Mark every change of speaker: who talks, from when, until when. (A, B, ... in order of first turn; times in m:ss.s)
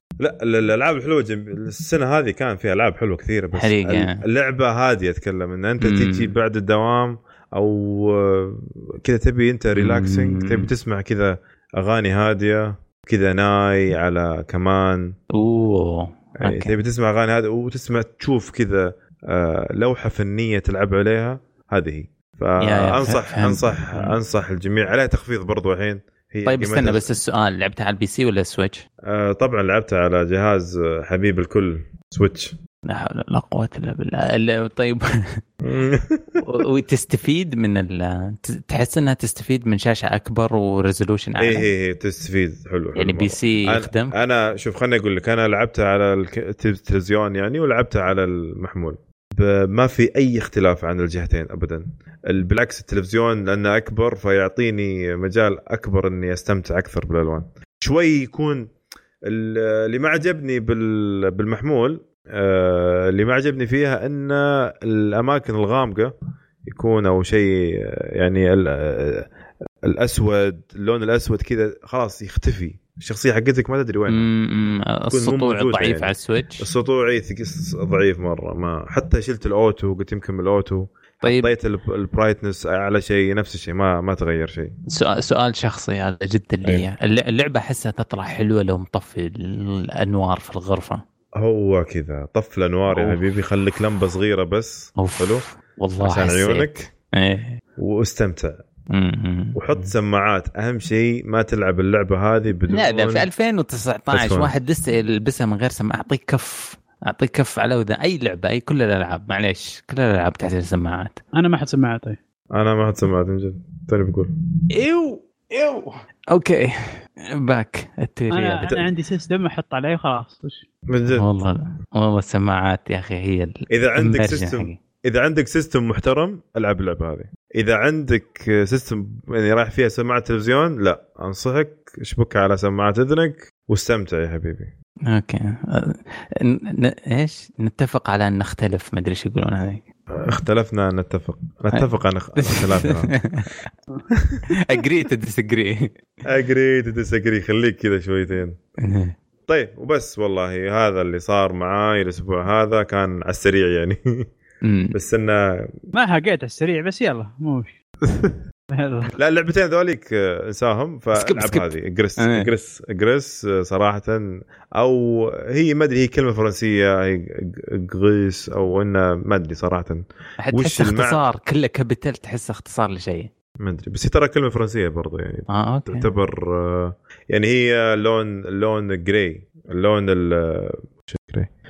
0:00.2-0:15.2 A
0:03.6-0:04.1 B
0:05.8-0:06.3 B
0:09.8-0:10.7 B
0:15.4-0:16.7 B
0:16.4-0:27.1 A
0:22.6-0:24.2 B
0:26.5-0:28.8 B
0:29.1-0:32.6 A
0:32.9-0:35.4 B
0:35.6-0:36.4 A
0:36.4-0:41.7 B
0:41.4-0:58.7 A
0:43.0-0:44.1 B
0:59.3-1:06.1 A
1:06.7-1:09.3 A
1:09.9-1:14.2 A
1:14.1-1:16.7 B
1:15.1-1:24.7 A
1:24.9-1:31.0 B
1:31.4-1:35.4 A
1:32.9-1:33.2 B
1:35.0-1:37.6 B
1:36.0-1:36.9 A
1:37.8-1:38.6 A
1:38.9-1:39.9 B
1:39.6-1:43.3 A
1:42.7-1:51.2 B
1:44.1-1:44.5 A
1:51.4-1:52.2 C
1:52.5-1:54.3 A
1:54.7-1:58.7 B
1:58.3-2:00.6 C
2:00.9-2:01.3 A
2:01.2-2:04.8 B
2:03.7-2:14.7 A
2:15.1-2:19.8 B
2:20.1-2:23.1 A
2:22.4-2:23.6 B
2:24.1-2:24.4 A
2:24.6-2:25.9 B
2:26.3-2:28.6 A
2:28.8-2:29.1 B
2:29.5-2:34.0 A
2:34.6-2:34.9 B
2:34.9-2:35.7 A
2:35.9-2:37.7 C
2:38.1-2:38.4 A
2:38.7-2:39.1 C
2:39.2-2:44.2 A
2:41.2-2:42.5 B
2:44.8-2:51.2 A
2:50.4-2:53.3 B
2:53.6-3:01.5 A
2:55.5-2:56.1 B